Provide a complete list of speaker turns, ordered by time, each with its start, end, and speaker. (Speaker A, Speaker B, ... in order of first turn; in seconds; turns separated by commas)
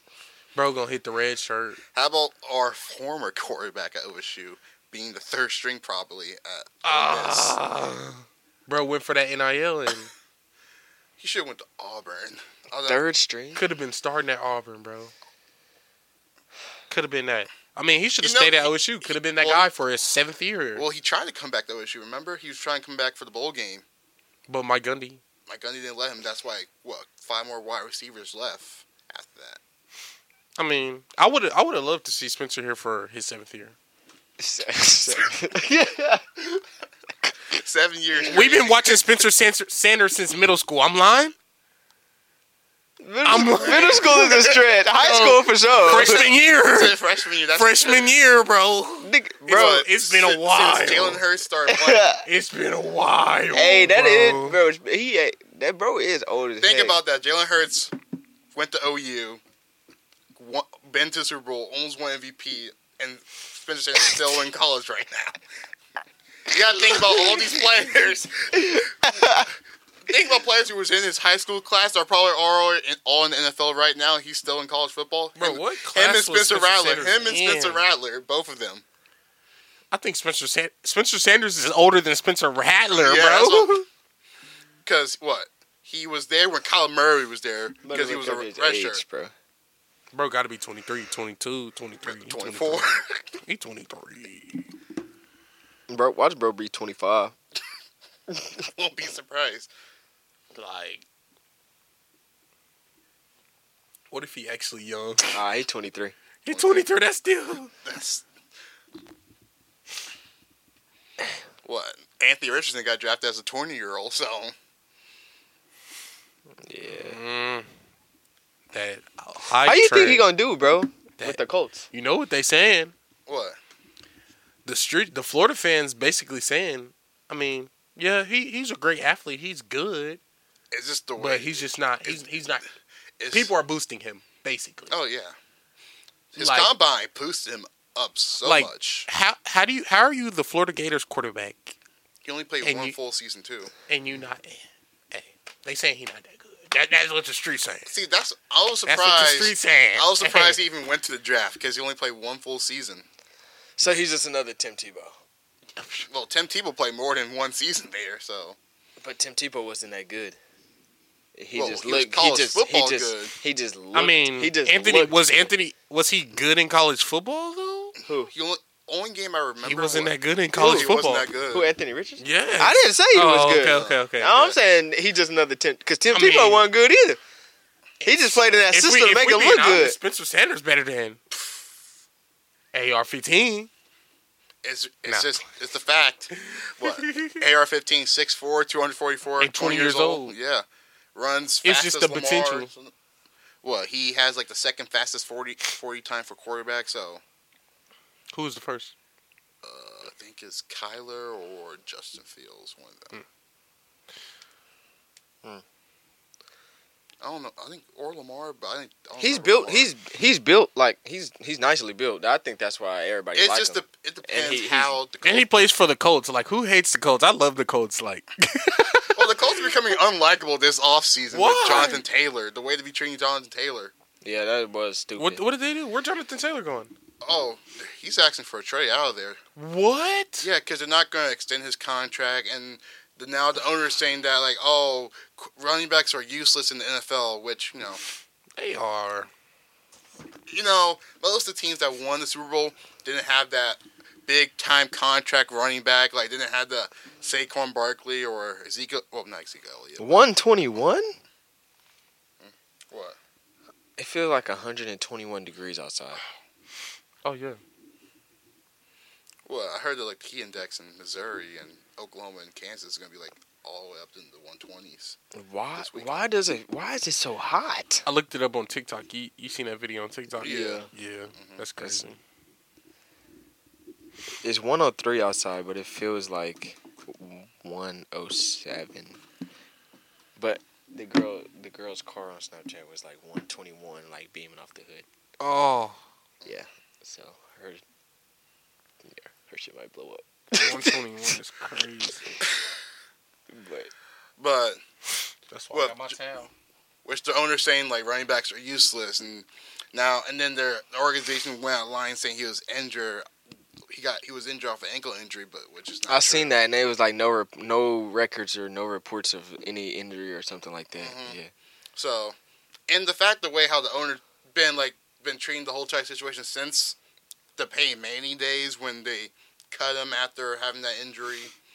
Speaker A: 0.5-1.8, Speaker B: 1.9-7.6, Speaker A: 6.8-10.1, Speaker B: 11.2-13.0, Speaker C: 12.8-13.6, Speaker A: 13.5-15.1, Speaker A: 16.9-20.8, Speaker B: 18.2-19.7, Speaker B: 20.8-23.8, Speaker A: 24.5-25.2, Speaker B: 25.5-29.6, Speaker A: 30.6-33.8, Speaker C: 34.4-36.2, Speaker B: 37.5-39.0, Speaker A: 38.2-41.3, Speaker C: 43.0-46.2, Speaker A: 43.2-44.5, Speaker B: 43.5-48.1, Speaker A: 45.1-47.0, Speaker A: 47.5-51.2, Speaker C: 49.0-49.8, Speaker B: 49.5-52.1, Speaker C: 51.7-52.2, Speaker A: 52.2-54.6, Speaker C: 53.5-57.0, Speaker B: 56.6-57.9, Speaker B: 58.5-59.4, Speaker B: 60.4-65.4, Speaker B: 66.5-69.1, Speaker C: 68.7-69.5, Speaker B: 70.0-78.8, Speaker A: 75.3-77.9, Speaker A: 79.9-83.8, Speaker B: 82.9-83.8, Speaker B: 84.8-89.0, Speaker C: 87.8-89.3, Speaker A: 90.1-92.9, Speaker B: 92.1-93.3, Speaker A: 93.4-94.6, Speaker C: 95.9-97.3, Speaker B: 98.6-99.7, Speaker A: 100.5-101.0, Speaker A: 104.1-105.3, Speaker C: 105.3-106.2, Speaker A: 106.4-107.7, Speaker B: 106.5-106.8, Speaker B: 107.8-108.2, Speaker B: 111.6-114.5, Speaker C: 116.6-117.2, Speaker A: 116.8-117.7, Speaker A: 118.7-120.2, Speaker C: 119.6-121.9, Speaker A: 121.9-122.9, Speaker B: 123.3-123.6, Speaker A: 124.6-130.2, Speaker B: 130.7-132.3, Speaker A: 131.2-132.6, Speaker B: 133.2-133.5, Speaker A: 133.3-134.9, Speaker B: 134.9-135.3, Speaker B: 136.3-139.1, Speaker A: 136.3-136.7, Speaker A: 138.4-141.8, Speaker B: 142.2-143.7, Speaker A: 142.6-142.9, Speaker A: 143.9-147.9, Speaker B: 147.9-153.0, Speaker A: 148.9-150.6, Speaker C: 153.8-155.2, Speaker A: 155.8-156.1, Speaker B: 156.1-158.6, Speaker C: 159.0-160.4, Speaker C: 161.3-165.5, Speaker B: 161.5-163.3, Speaker A: 163.9-167.9, Speaker C: 168.0-168.3, Speaker B: 168.2-171.7, Speaker A: 169.6-171.3, Speaker C: 170.6-170.9, Speaker C: 171.5-177.2, Speaker A: 172.2-174.3, Speaker B: 173.7-174.6, Speaker A: 176.1-176.7, Speaker A: 178.0-181.2, Speaker C: 178.0-179.9, Speaker A: 182.7-183.7, Speaker B: 184.6-192.9, Speaker A: 185.1-185.4, Speaker A: 186.4-187.4, Speaker A: 189.4-190.3, Speaker A: 191.6-192.7, Speaker B: 193.6-197.2, Speaker A: 198.3-198.9, Speaker B: 199.6-203.1, Speaker B: 207.2-209.9, Speaker C: 209.2-215.0, Speaker B: 213.3-215.7, Speaker A: 215.2-219.4, Speaker B: 219.1-223.9, Speaker A: 221.3-222.0, Speaker C: 224.2-225.4, Speaker A: 225.2-226.9, Speaker B: 227.2-229.4, Speaker A: 229.6-230.5, Speaker B: 230.4-238.0, Speaker A: 238.6-239.3, Speaker B: 240.5-250.2, Speaker C: 250.0-251.1, Speaker B: 252.4-253.2, Speaker C: 254.0-256.2, Speaker A: 257.2-257.6, Speaker B: 259.4-265.2, Speaker C: 265.3-268.0, Speaker B: 265.8-266.2, Speaker A: 268.1-272.2, Speaker B: 270.4-270.8, Speaker C: 270.4-270.9, Speaker B: 271.4-271.6, Speaker C: 271.8-272.1, Speaker C: 274.4-279.2, Speaker C: 280.4-285.0, Speaker A: 285.4-286.0, Speaker C: 286.4-287.8, Speaker C: 289.0-291.3, Speaker A: 290.5-292.4, Speaker C: 293.5-293.9, Speaker B: 294.4-294.8, Speaker A: 295.5-296.5, Speaker B: 295.7-296.2, Speaker B: 297.0-303.3, Speaker B: 303.9-306.5, Speaker C: 306.1-311.5, Speaker B: 311.0-311.4, Speaker B: 311.9-312.4, Speaker B: 312.9-317.0, Speaker B: 317.6-321.5